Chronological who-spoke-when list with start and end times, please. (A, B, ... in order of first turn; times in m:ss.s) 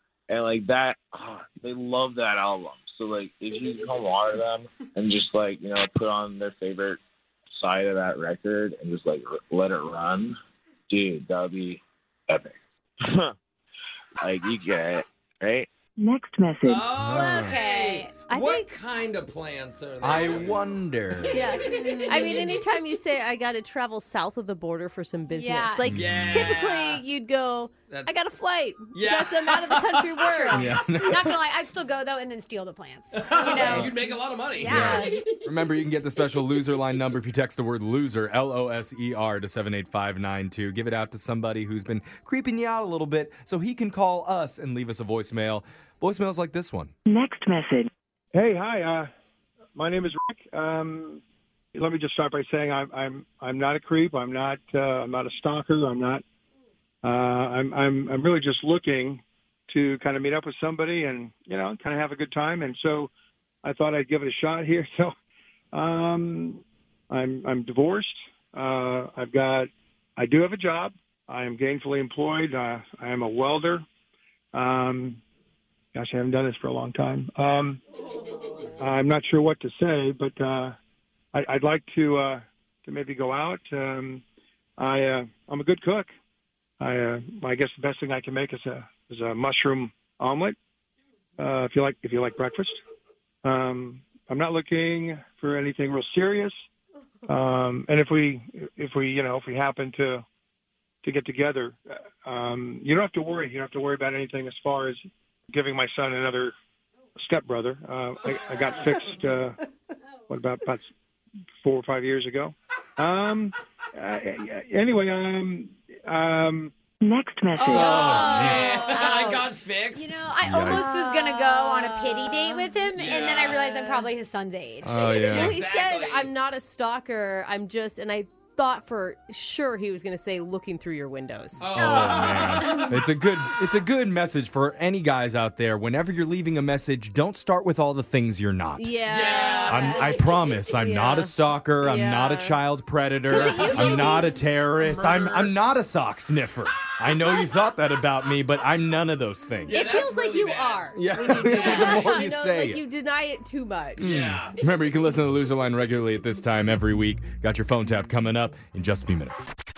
0:00.3-0:07.0 A
0:07.5-0:10.4 A
0:10.9-0:12.6 A
0:14.2-0:15.7 A
0:16.0-0:16.8 B
0:16.6-0:20.8 C
0:16.7-0:18.1 D
0:16.9-0:17.6 E
0:18.3-0:18.7 F
0:20.0-0:21.5 E
0:21.3-0:30.8 F
0:21.6-0:22.5 D
0:25.3-0:26.0 D
0:25.8-0:26.5 E
0:26.0-0:27.0 C
0:27.9-0:28.2 C
0:28.9-0:30.3 C
0:30.3-0:34.0 D
0:30.5-0:31.4 E
0:33.1-0:34.7 C
0:33.4-0:33.8 F
0:33.6-0:34.0 E
0:34.6-0:35.1 D
0:34.6-0:35.2 F
0:34.7-0:46.9 E
0:47.1-0:47.9 B
0:48.3-0:49.1 G
0:49.8-0:51.2 G
0:51.7-0:56.2 G
0:57.0-1:03.1 G
1:03.6-1:05.1 G
1:05.7-1:13.8 G
1:14.5-1:15.2 G
1:16.0-1:17.8 G
1:18.8-1:20.8 G
1:21.3-1:24.2 G
1:24.8-1:26.1 G
1:26.8-1:30.6 G
1:31.4-1:32.8 G
1:33.4-1:36.6 G
1:37.3-1:40.2 G
1:41.0-1:46.5 G
1:47.2-1:49.6 G
1:50.3-1:50.9 G
1:51.6-1:56.7 G
1:57.0-1:57.8 B
1:57.6-1:59.5 F
1:57.8-2:00.2 C
1:57.9-1:58.7 E
1:59.9-2:05.0 D
2:00.4-2:00.9 E
2:00.5-2:03.0 F
2:03.0-2:03.8 C
2:03.8-2:04.1 F
2:04.8-2:05.6 E
2:05.2-2:12.9 F
2:05.4-2:06.3 C
2:11.6-2:12.9 C
2:11.7-2:19.0 E
2:18.8-2:22.6 F
2:19.1-2:20.0 C
2:19.6-2:29.8 E
2:23.3-2:25.5 F
2:29.7-2:30.9 C
2:29.7-2:34.1 F
2:30.9-2:32.8 E
2:34.0-2:39.5 E
2:34.0-2:34.5 C